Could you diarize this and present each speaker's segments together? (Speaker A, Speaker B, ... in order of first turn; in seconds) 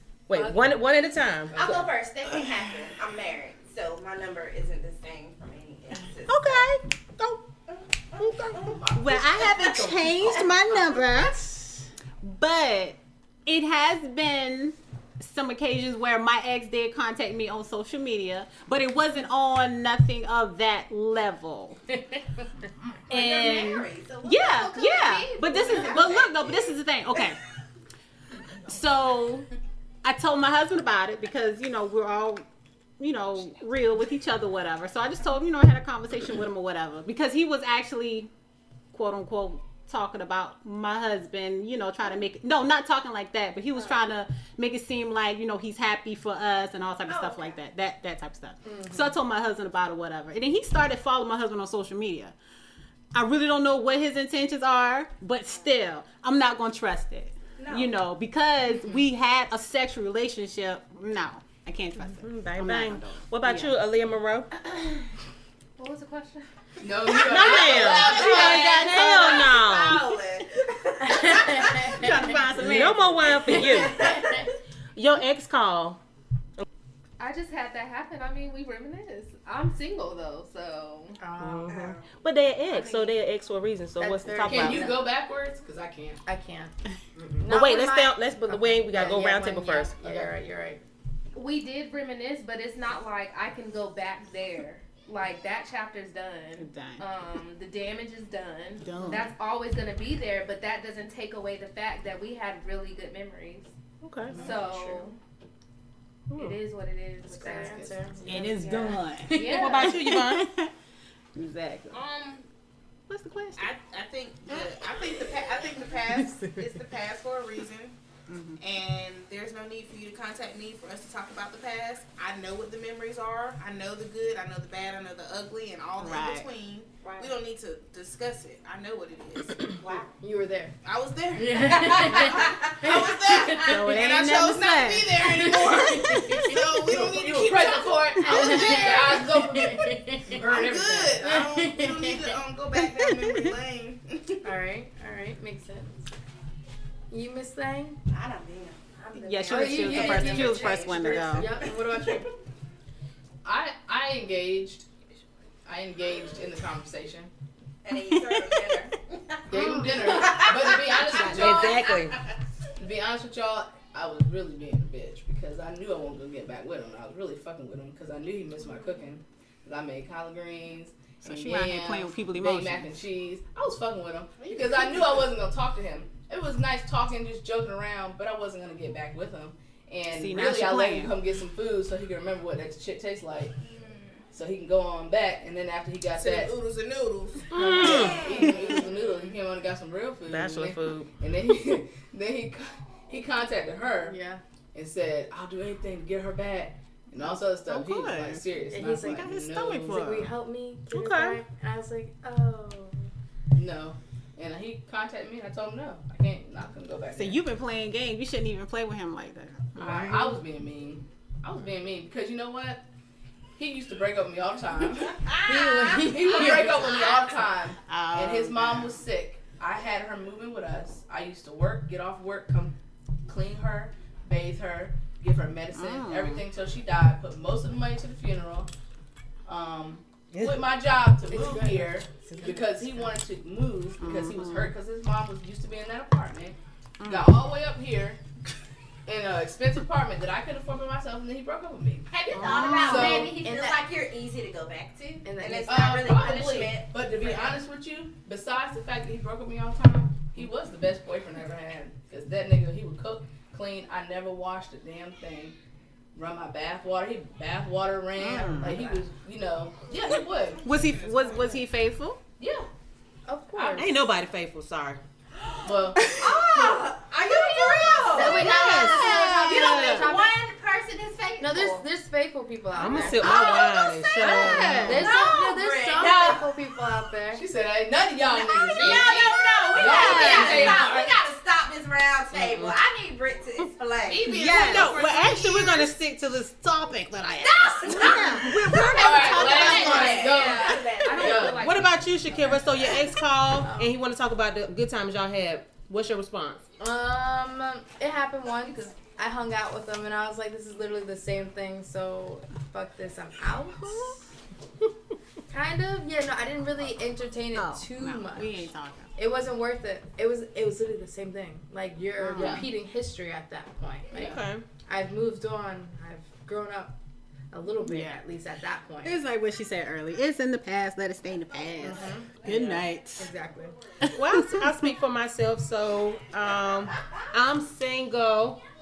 Speaker A: 0.3-1.8, 6.3-7.4, 8.2-8.7, 62.1-64.5, 67.2-70.1, 72.6-74.2, 75.0-76.0, 81.4-84.9, 87.5-90.3, 104.0-104.4, 106.3-106.6, 109.3-110.5, 161.2-162.2, 187.5-188.2, 190.3-191.1, 200.9-201.4, 230.3-230.8, 263.8-265.0, 268.2-269.2, 272.7-275.0, 282.3-282.8, 284.4-290.1, 291.6-296.6, 314.1-314.6, 324.1-328.6
Speaker B: 0.3-0.6, 48.7-49.1, 71.0-72.3, 73.5-74.5, 81.2-81.9, 84.0-85.0, 86.3-86.7, 87.4-90.8, 107.3-109.9, 116.1-116.5, 130.2-130.8, 131.3-133.9, 135.2-136.9, 138.2-142.4, 144.4-146.1, 147.1-148.0, 149.4-152.3, 159.5-160.4, 194.0-194.4, 198.7-199.3, 199.9-203.1, 215.4-216.9, 231.2-233.1, 242.7-243.8, 245.2-246.0, 263.3-263.9, 268.0-270.4, 271.4-273.4, 274.8-277.5, 293.6-293.9, 296.8-304.2, 305.5-317.0, 317.5-319.2, 321.8-322.4, 323.2-323.8
Speaker C: 1.5-1.9, 8.6-11.0, 66.8-68.6, 84.4-86.2, 87.2-87.4, 104.3-104.8, 107.3-108.0, 136.9-141.2, 153.4-154.9, 155.7-157.3, 159.5-161.9, 162.8-183.6, 184.3-186.6, 187.6-194.2, 194.7-200.1, 203.5-207.4, 209.8-212.8, 213.6-215.3, 215.8-228.7, 229.5-238.2, 239.1-242.1, 242.8-243.4, 245.7-255.6, 256.1-260.7, 262.4-262.7, 263.6-263.9, 265.6-266.2, 277.3-281.2, 288.7-291.7, 312.4-312.7
Speaker D: 1.5-6.7, 7.7-8.8, 23.1-26.7, 47.1-47.6, 57.6-57.9, 67.3-71.9, 73.5-74.4, 81.7-82.1, 127.0-127.4, 148.1-151.8, 157.8-162.2, 187.8-188.9, 215.3-217.3, 242.1-247.6, 266.1-271.9, 273.2-276.5, 278.2-284.4, 287.4-291.6
Speaker E: 8.9-21.8, 23.1-27.4, 28.6-29.5, 30.0-32.5, 33.0-38.3, 38.9-52.4, 53.1-63.7, 71.7-73.7, 96.6-97.0, 98.8-99.3, 108.3-110.7, 111.4-112.0, 113.1-113.7, 118.3-118.6, 126.0-126.5, 133.7-135.3, 142.8-143.6, 149.2-151.5, 160.9-161.7, 171.2-173.0, 180.1-181.2, 197.7-198.4, 199.1-200.3, 207.2-210.4, 217.9-219.0, 225.7-226.4, 234.0-234.7, 237.0-237.3, 242.3-243.3, 258.2-259.0, 260.6-262.2, 268.3-270.1, 274.2-275.1, 279.8-280.8, 284.3-285.0, 287.8-290.2, 307.5-309.1, 312.2-312.7, 317.8-318.2, 319.0-323.3
Speaker F: 65.8-66.5, 77.2-81.2, 82.7-83.2, 91.3-103.7, 104.3-105.2, 106.4-110.0, 290.3-292.4
Speaker G: 104.5-105.1, 111.9-112.5, 113.6-118.0, 118.6-130.0, 130.8-139.3, 140.3-144.5, 174.4-175.3, 183.7-184.2, 186.1-188.5, 260.7-261.5, 278.8-279.6, 284.0-285.9